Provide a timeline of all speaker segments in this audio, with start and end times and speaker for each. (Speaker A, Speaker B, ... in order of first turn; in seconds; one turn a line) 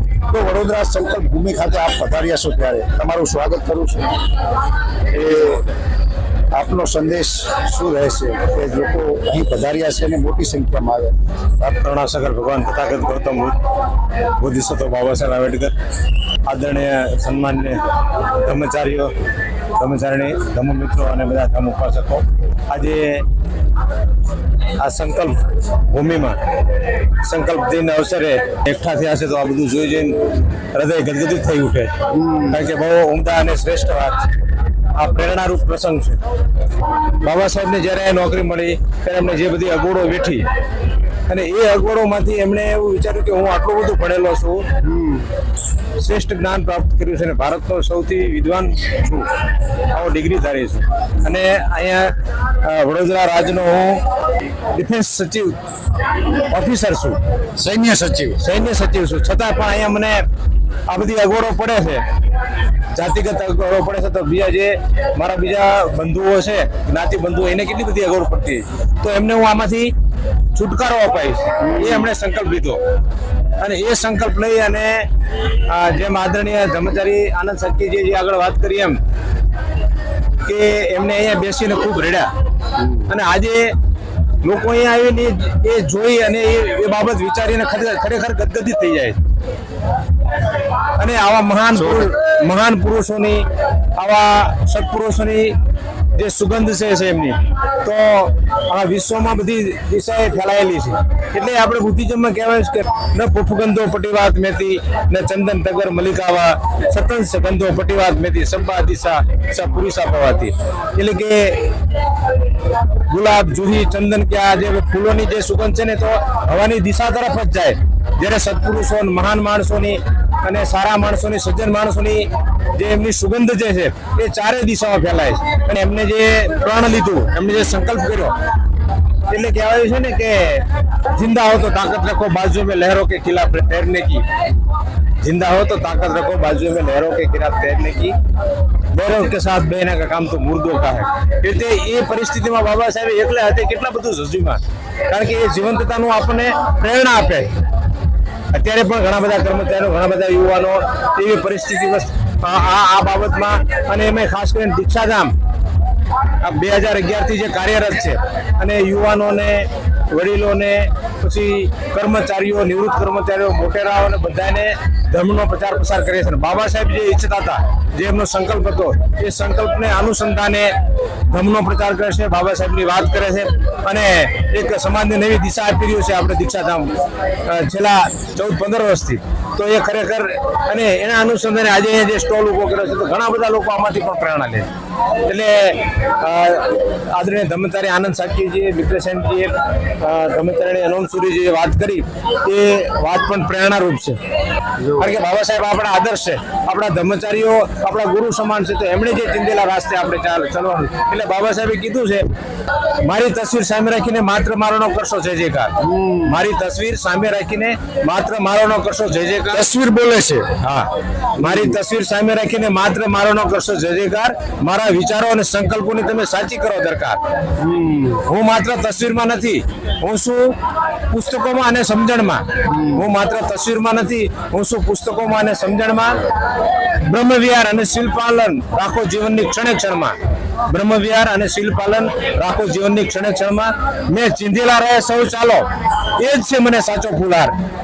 Speaker A: 0.3-4.2
Speaker B: 5.1-5.7
Speaker A: 5.2-5.6
Speaker A: 6.5-11.1
Speaker B: 11.6-13.6
Speaker B: 14.4-15.7
Speaker B: 16.4-19.1
Speaker B: 19.8-23.2
Speaker B: 24.8-26.4
Speaker B: 27.2-31.9
Speaker A: 32.1-32.6
Speaker B: 32.5-34.3
Speaker B: 34.9-36.2
Speaker B: 37.2-40.5
Speaker B: 41.3-44.6
Speaker A: 44.8-45.3
Speaker B: 46.0-49.3
Speaker B: 49.9-54.0
Speaker B: 54.7-55.6
Speaker B: 56.5-57.2
Speaker A: 57.6-58.4
Speaker B: 58.4-60.2
Speaker B: 60.9-62.0
Speaker B: 63.0-69.9
Speaker B: 70.5-72.8
Speaker B: 73.6-75.1
Speaker B: 75.7-79.0
Speaker B: 80.5-82.3
Speaker B: 83.1-83.7
Speaker B: 84.4-89.2
Speaker B: 91.0-93.5
Speaker A: 91.8-92.1
Speaker B: 94.0-95.5
Speaker B: 96.2-111.7
Speaker B: 113.1-128.3
Speaker B: 129.3-134.2
Speaker B: 135.2-138.2
Speaker B: 138.9-147.5
Speaker B: 148.5-155.3
Speaker B: 156.4-170.7
Speaker B: 171.3-176.9
Speaker B: 177.4-184.7
Speaker B: 185.3-194.2
Speaker A: 194.8-195.1
Speaker B: 195.0-202.3
Speaker B: 203.0-209.6
Speaker A: 205.8-206.4
Speaker A: 209.5-210.5
Speaker B: 210.6-217.2
Speaker A: 211.4-211.8
Speaker A: 217.6-218.2
Speaker B: 218.2-220.5
Speaker B: 221.1-226.2
Speaker A: 222.7-223.0
Speaker B: 227.0-230.1
Speaker B: 230.7-235.7
Speaker B: 236.2-237.5